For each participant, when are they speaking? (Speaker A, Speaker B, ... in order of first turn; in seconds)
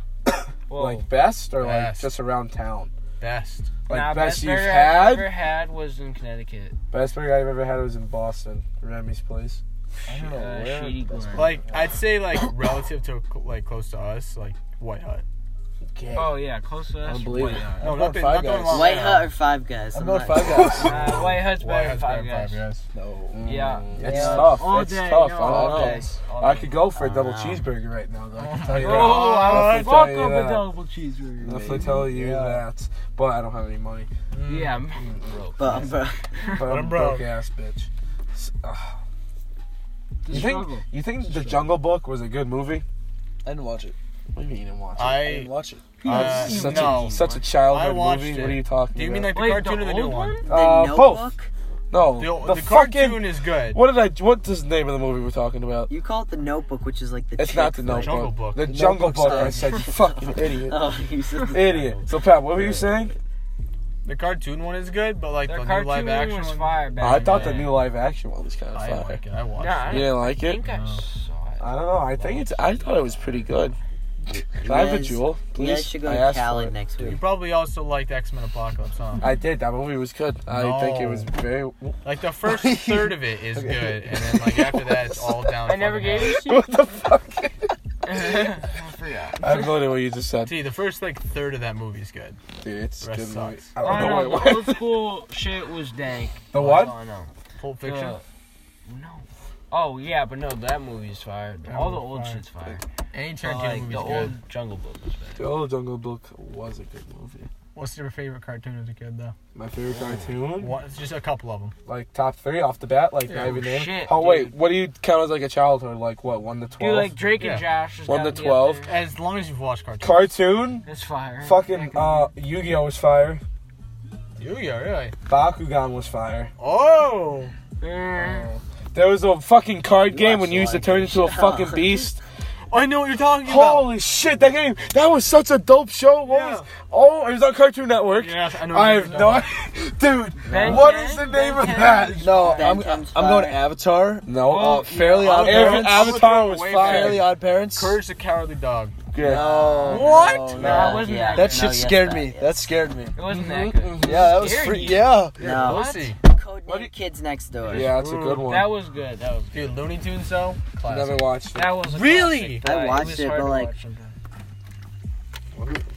Speaker A: 0.7-1.1, 3.9-6.8, 10.1-11.6, 16.1-18.0, 20.6-22.6, 23.4-26.8, 28.4-32.0, 34.5-36.5, 40.2-41.7, 46.0-47.1, 49.4-50.5, 59.2-59.8, 65.4-67.7, 69.6-73.7, 85.7-86.7, 88.1-89.9, 93.8-98.2, 98.9-102.8, 103.4-105.4, 109.9-110.2, 113.3-114.6, 116.8-118.9, 120.9-122.3, 127.8-128.5, 140.5-143.0, 144.4-145.9, 149.3-151.7, 153.2-156.2, 158.4-159.6, 161.6-164.2
Speaker B: 0.8-2.9, 3.9-5.3, 6.9-9.6, 15.9-16.4, 20.8-21.1, 23.3-30.7, 31.4-34.1, 35.0-35.3, 36.5-39.0, 40.3-42.8, 44.4-45.3, 46.0-49.4, 50.5-51.3, 51.9-55.9, 57.4-60.8, 61.5-63.1, 67.0-69.2, 69.8-70.6, 71.6-73.8, 74.6-76.8, 79.2-82.0, 84.5-85.5, 86.0-88.5, 89.4-90.6, 92.6-95.0, 96.5-97.0, 105.4-107.5, 109.5-110.8, 111.9-117.2, 118.0-118.9, 120.0-120.9, 121.4-123.4, 125.3-126.5, 128.2-132.2, 133.4-142.3, 144.3-147.3, 149.1-149.5, 153.3-154.5, 156.7-156.9, 157.7-158.7, 160.8-161.8, 165.6-165.8
Speaker C: 1.6-2.1, 3.2-3.8, 11.3-15.2, 17.8-19.3, 20.8-22.8, 28.7-30.1, 34.3-34.8, 36.6-37.3, 45.0-45.5, 46.0-50.4, 52.2-53.8, 57.9-58.7, 64.0-67.8, 68.7-71.0, 77.0-79.3, 80.5-81.3, 82.0-86.4, 90.5-92.4, 93.0-94.1, 97.6-98.2, 101.7-102.4, 103.1-104.4, 107.8-109.3, 110.6-111.8, 113.3-113.6, 117.4-117.7, 118.8-120.3, 124.4-125.1, 126.6-127.5, 132.7-133.9, 136.2-136.7, 138.2-139.5, 145.0-148.9, 155.4-156.2, 157.7-158.5, 159.5-162.7
Speaker D: 10.1-11.5, 17.1-18.9, 19.9-21.1, 22.9-24.6, 25.6-26.0, 31.4-32.6, 43.4-44.0, 45.3-46.0, 58.6-59.7, 82.5-84.5, 142.2-144.3, 145.7-146.0, 146.8-148.0, 149.3-153.2, 154.0-155.7
Speaker E: 18.7-20.9, 26.9-27.7, 35.6-36.6, 50.5-51.5, 55.9-58.3, 59.8-63.1, 74.3-77.2, 130.1-132.1, 140.4-140.9, 142.3-143.6, 149.3-152.7, 155.4-158.0, 162.6-163.8